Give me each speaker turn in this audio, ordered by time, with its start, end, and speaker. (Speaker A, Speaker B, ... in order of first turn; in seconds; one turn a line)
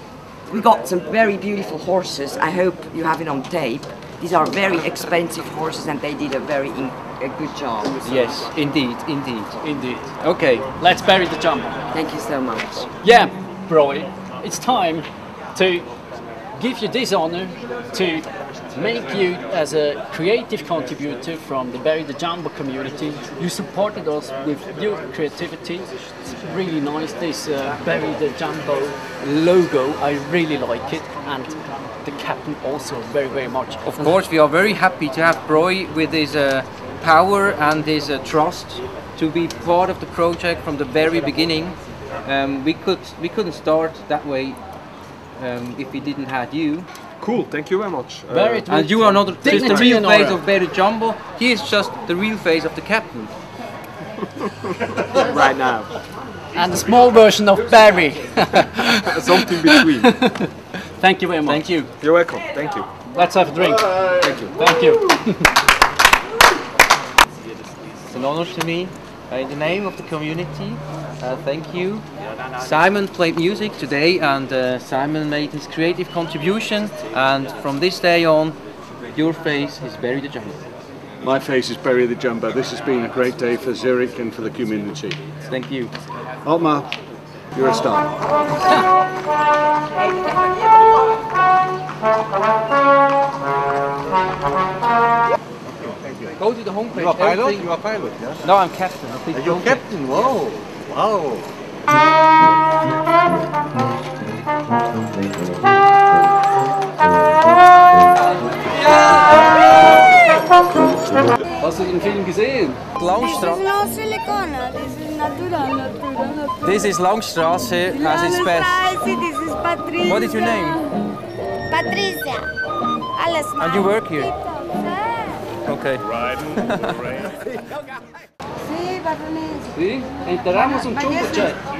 Speaker A: 0.5-8.0
Speaker B: 8.0-9.6
Speaker C: 9.6-10.2
Speaker B: 10.2-10.7
Speaker C: 10.8-11.8
Speaker A: 11.9-12.9
Speaker C: 13.0-15.9
Speaker C: 16.6-34.2
Speaker B: 33.9-44.6
Speaker B: 45.4-46.9
Speaker D: 47.2-48.7
Speaker C: 48.3-50.4
Speaker B: 48.7-53.3
Speaker D: 49.4-50.0
Speaker D: 54.9-55.9
Speaker C: 56.5-61.7
Speaker D: 59.0-60.1
Speaker B: 61.5-61.9
Speaker D: 62.0-62.9
Speaker C: 63.1-65.5
Speaker D: 64.2-64.5
Speaker B: 68.1-72.0
Speaker B: 72.6-78.6
Speaker B: 79.1-80.6
Speaker E: 81.2-85.2
Speaker B: 85.5-85.9
Speaker E: 86.5-86.9
Speaker E: 87.5-88.1
Speaker A: 90.0-90.9
Speaker B: 96.4-99.9
Speaker E: 97.0-98.4
Speaker E: 99.3-101.4
Speaker B: 108.7-109.5
Speaker C: 111.6-112.8
Speaker B: 113.0-113.8
Speaker F: 113.2-116.7
Speaker B: 116.6-119.2
Speaker F: 118.0-120.8
Speaker B: 120.0-120.9
Speaker F: 121.7-122.5
Speaker F: 123.2-125.5
Speaker B: 123.6-124.4
Speaker B: 125.7-127.3
Speaker F: 128.6-129.7
Speaker C: 129.7-131.6